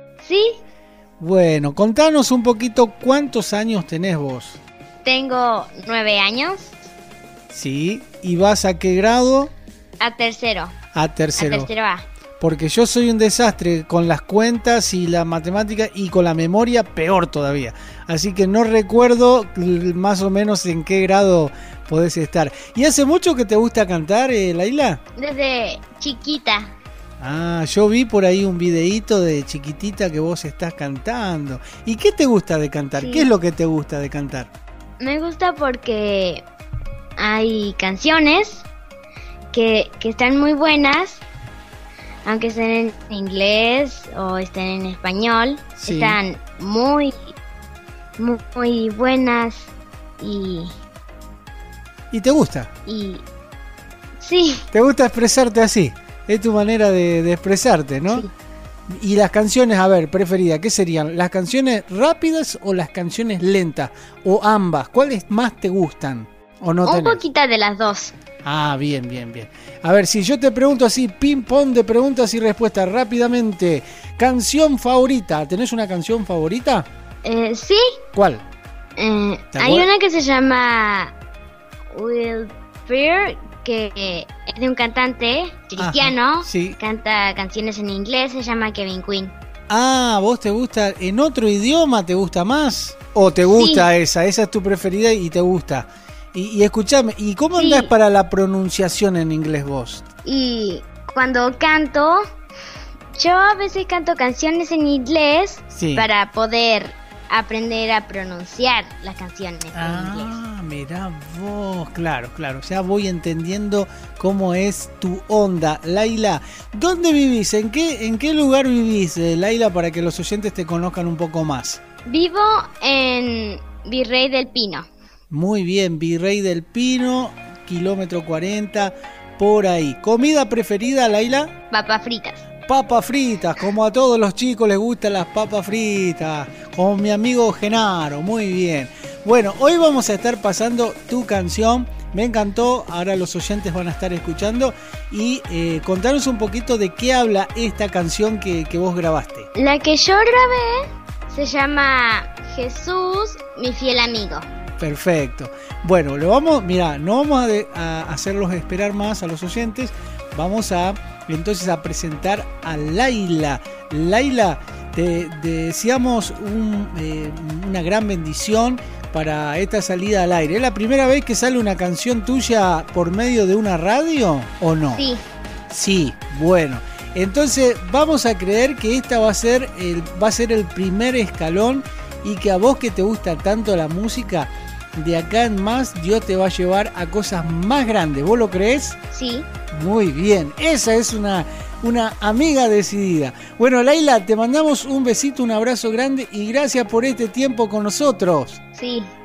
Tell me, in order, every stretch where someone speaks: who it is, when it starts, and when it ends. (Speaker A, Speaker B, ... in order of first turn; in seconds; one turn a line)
Speaker A: 0.2-0.6
Speaker B: 1.2-4.6
Speaker A: 5.0-6.8
Speaker B: 7.5-9.5
Speaker A: 10.0-10.7
Speaker B: 10.9-11.7
Speaker A: 11.4-12.1
Speaker B: 12.4-25.0
Speaker A: 25.2-26.7
Speaker B: 27.2-34.5
Speaker A: 33.0-33.3
Speaker A: 35.0-36.5
Speaker A: 37.2-38.7
Speaker A: 39.5-41.2
Speaker A: 42.2-47.1
Speaker B: 45.8-46.2
Speaker A: 48.2-50.7
Speaker B: 52.1-52.7
Speaker A: 52.9-53.2
Speaker A: 54.2-54.7
Speaker B: 54.7-58.3
Speaker B: 58.9-67.2
Speaker A: 66.8-68.2
Speaker B: 68.4-76.9
Speaker A: 77.2-78.0
Speaker B: 78.1-78.4
Speaker A: 79.0-81.2
Speaker B: 79.5-79.9
Speaker A: 81.9-89.3
Speaker B: 85.8-86.8
Speaker B: 89.7-100.1
Speaker A: 93.5-93.9
Speaker A: 97.6-97.9
Speaker A: 100.2-102.2
Speaker A: 103.1-110.4
Speaker B: 105.7-106.1
Speaker B: 109.8-121.8
Speaker A: 122.1-124.9
Speaker B: 125.3-131.5
Speaker A: 131.7-132.4
Speaker B: 132.7-149.5
Speaker A: 149.5-154.4
Speaker B: 154.8-175.1
Speaker A: 174.9-175.2
Speaker B: 175.7-189.0
Speaker A: 189.1-189.5
Speaker B: 189.7-198.6
Speaker A: 198.8-199.1